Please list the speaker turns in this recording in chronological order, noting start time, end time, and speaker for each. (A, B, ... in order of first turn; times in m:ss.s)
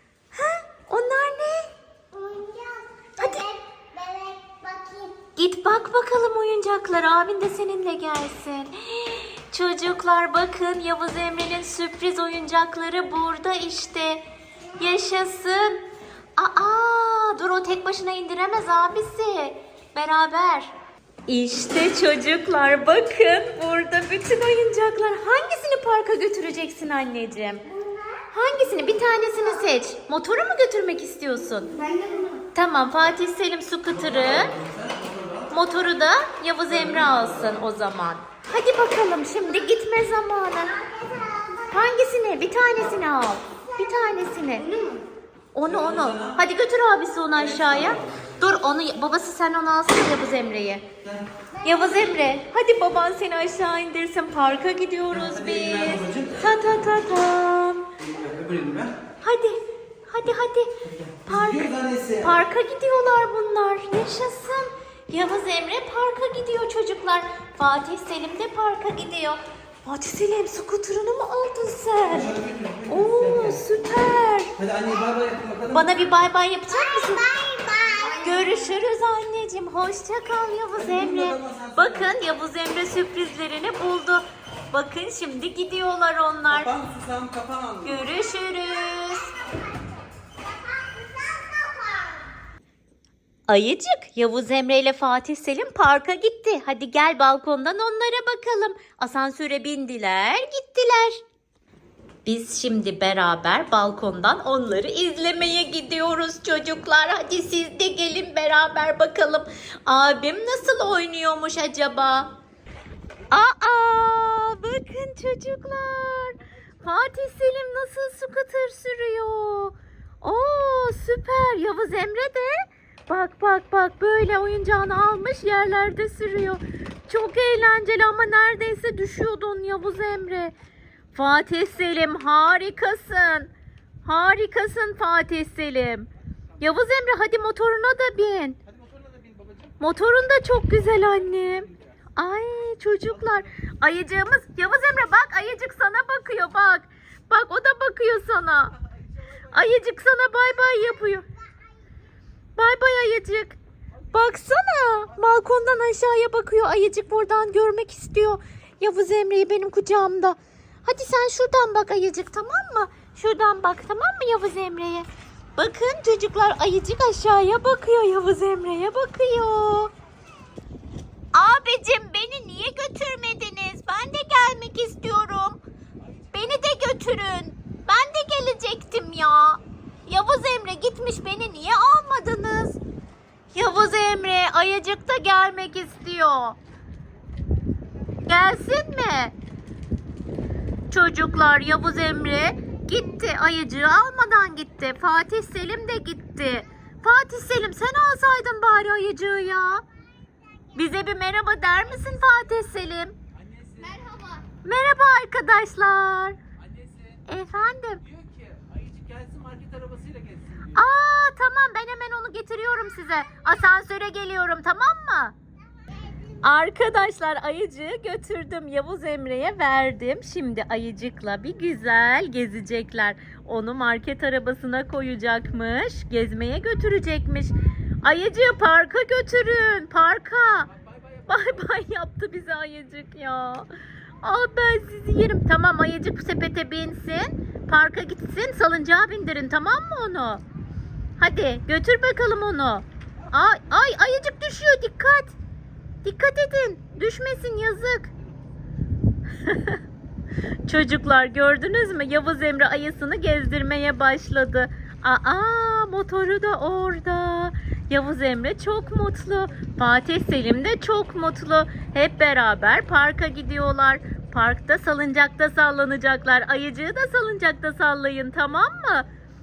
0:00.3-0:01.7 A
0:02.1-0:05.2 B
0:03.2-0:03.5 A
0:05.4-0:14.2 A
0:14.8-0:20.7 A
0:21.3-0:27.7 A
0:27.8-0:28.2 B
0:28.3-0:31.8 A
0:31.8-0:32.4 B
0:32.5-0:34.6 A
0:34.6-0:35.4 C
0:35.5-0:40.8 A
0:40.9-0:41.7 B
0:41.7-0:44.8 A
0:44.7-0:45.1 B
0:45.5-0:50.9 A
0:46.0-0:46.4 C
0:51.6-0:57.9 A
0:55.5-0:56.4 C
0:58.0-0:59.0 C
0:59.2-1:00.7 A
1:01.1-1:02.2 C
1:01.3-1:14.6 A
1:12.4-1:13.6 C
1:14.6-1:15.7 C
1:15.7-1:17.4 A
1:17.0-1:18.2 B
1:18.0-1:26.8 A
1:21.3-1:21.7 C
1:26.5-1:27.9 C
1:27.8-1:29.4 A
1:30.5-1:32.3 B
1:33.5-1:41.2 A
1:42.2-1:52.4 A
1:53.3-2:10.5 A
2:11.1-2:13.5 A
2:14.0-2:18.6 A
2:18.9-2:19.7 C
2:19.8-2:28.8 A
2:29.4-2:31.3 A
2:32.6-2:33.6 A
2:34.1-2:49.9 A
2:51.3-2:55.6 A
2:56.3-3:02.8 A
3:03.5-3:06.6 A
3:08.3-3:09.4 A
3:10.9-3:19.8 A
3:20.7-3:23.2 A
3:23.4-3:24.1 C
3:24.0-3:24.4 B
3:24.6-3:26.4 A
3:26.7-3:27.2 C
3:27.3-3:28.0 A
3:28.1-3:30.7 C
3:30.7-3:35.4 A
3:36.4-3:50.7 A
3:51.3-4:00.4 A
4:01.2-4:05.4 A
4:06.0-4:08.1 A
4:09.4-4:09.8 A
4:10.7-4:29.1 A